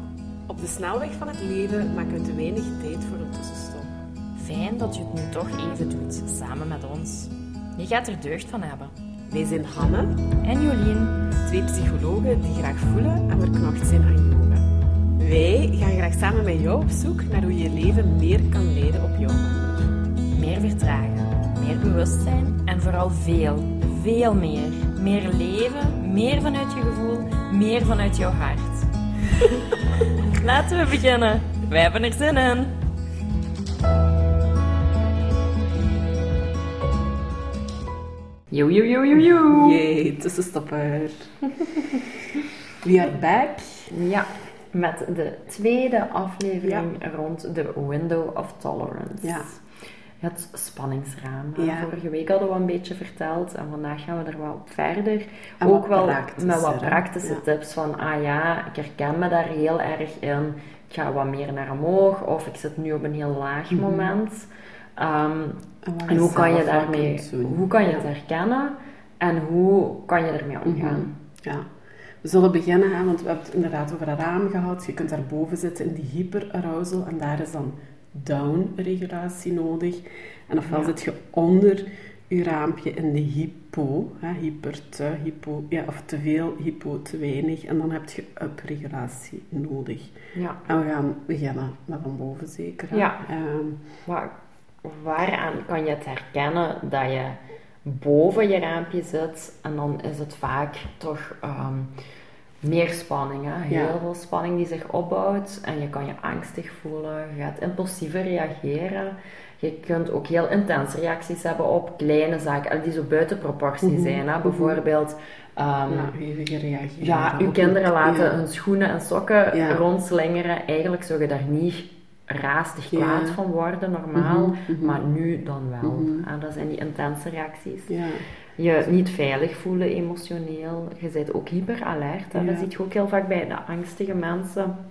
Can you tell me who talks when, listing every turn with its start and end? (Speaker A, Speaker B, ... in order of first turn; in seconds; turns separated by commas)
Speaker A: 0.5-3.9, Speaker B: 4.4-8.9, Speaker A: 9.3-10.2, Speaker B: 10.4-11.3, Speaker A: 11.4-14.7, Speaker A: 15.2-19.9, Speaker B: 20.4-32.7, Speaker B: 38.5-39.8, Speaker A: 39.5-41.3, Speaker B: 41.6-42.0, Speaker A: 42.8-43.9, Speaker B: 43.9-49.6, Speaker A: 46.6-46.9, Speaker A: 49.2-49.5, Speaker B: 50.2-71.2, Speaker A: 51.6-51.9, Speaker A: 55.6-57.4, Speaker A: 63.7-64.1, Speaker A: 65.8-68.1, Speaker A: 70.7-71.7, Speaker A: 72.2-90.2, Speaker B: 80.7-80.9, Speaker B: 90.3-90.6, Speaker A: 90.7-93.8, Speaker B: 92.9-93.2, Speaker B: 94.1-94.3, Speaker B: 94.8-101.9, Speaker B: 102.6-116.1, Speaker A: 103.7-104.0, Speaker A: 113.8-114.8, Speaker A: 115.9-118.4, Speaker B: 117.0-128.0, Speaker A: 119.5-119.8, Speaker A: 122.9-123.4, Speaker A: 124.2-125.0, Speaker A: 125.8-126.3, Speaker A: 127.9-128.2, Speaker B: 128.6-134.8, Speaker A: 132.3-132.7